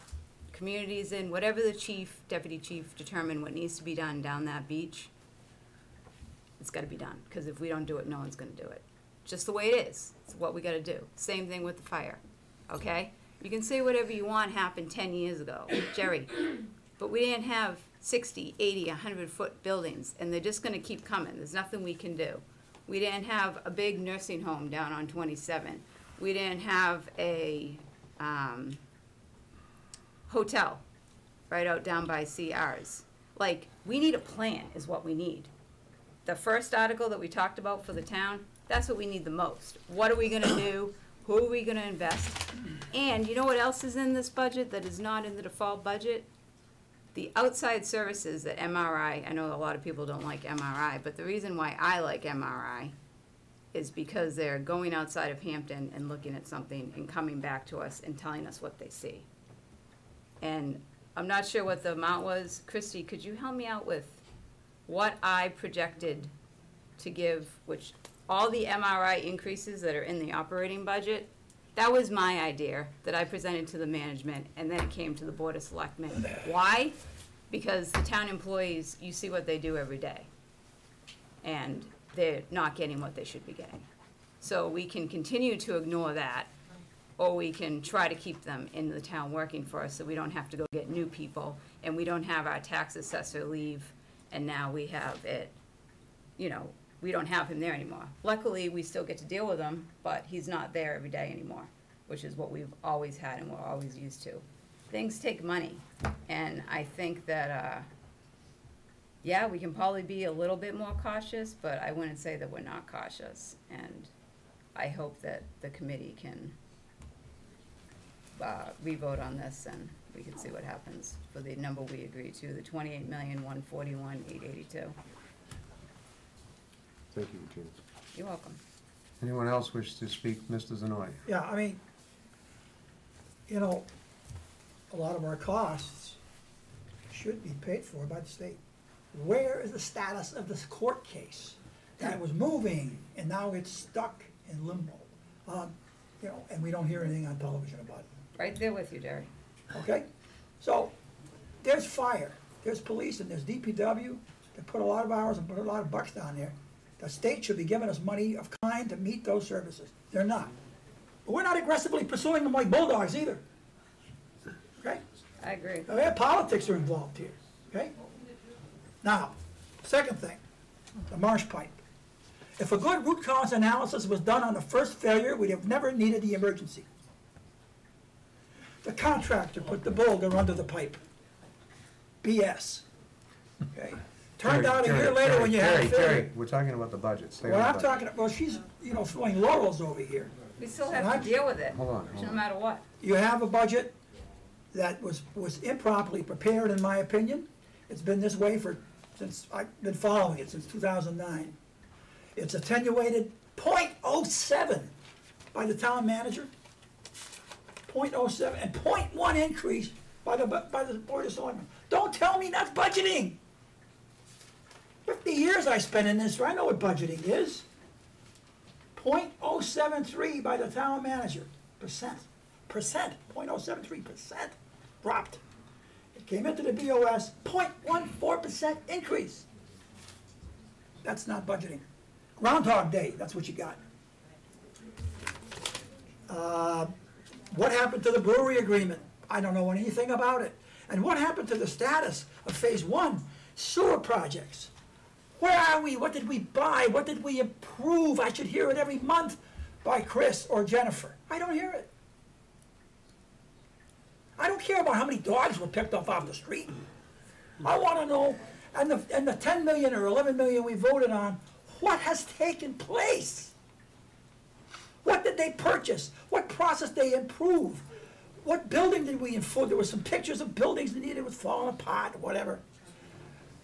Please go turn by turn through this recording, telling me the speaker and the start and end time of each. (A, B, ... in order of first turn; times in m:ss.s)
0:00.5-0:05.1 A
0:06.6-0:28.8 A
0:30.3-0:30.8 A
0:31.5-0:35.5 A
0:36.2-0:46.3 A
0:47.1-0:53.0 A
0:53.7-0:59.3 A
1:00.4-1:04.2 A
1:04.9-1:06.3 A
1:07.0-1:17.0 A
1:17.5-1:20.3 A
1:21.4-1:23.9 A
1:24.4-1:26.5 A
1:27.2-1:35.6 A
1:36.4-1:47.9 A
1:49.2-1:54.1 A
1:54.8-1:56.6 A
1:58.4-2:05.0 A
2:07.1-2:07.8 B
2:08.1-2:08.6 A
2:09.2-2:11.2 B
2:11.3-2:11.8 C
2:13.5-2:13.9 C
2:14.9-2:16.2 C
2:17.1-2:18.6 C
2:19.1-2:28.1 C
2:28.4-2:29.3 A
2:29.7-2:30.1 C
2:30.6-2:31.0 C
2:31.6-2:40.5 C
2:41.3-2:43.4 C
2:44.8-2:45.0 C
2:45.4-2:45.9 A
2:45.9-2:48.0 C
2:49.0-2:50.4 C
2:51.1-2:51.8 C
2:52.6-2:56.9 C
2:58.8-3:01.0 C
3:02.2-3:02.9 C
3:03.7-3:06.3 C
3:04.4-3:07.9 B
3:07.4-3:10.3 C
3:10.6-3:12.8 A
3:10.9-3:11.4 C
3:11.6-3:12.4 B
3:13.0-3:14.0 C
3:14.7-3:21.6 C
3:22.4-3:24.9 C
3:25.5-3:26.5 C
3:27.9-3:33.4 C
3:35.0-3:37.7 C
3:39.0-3:45.4 C
3:46.1-3:49.5 C
3:51.0-3:51.8 C
3:52.4-3:53.8 C
3:56.3-3:56.9 C
3:57.5-4:04.7 C
4:05.4-4:11.9 C
4:14.4-4:16.8 C
4:17.6-4:23.5 C
4:25.0-4:27.8 C
4:28.4-4:32.6 C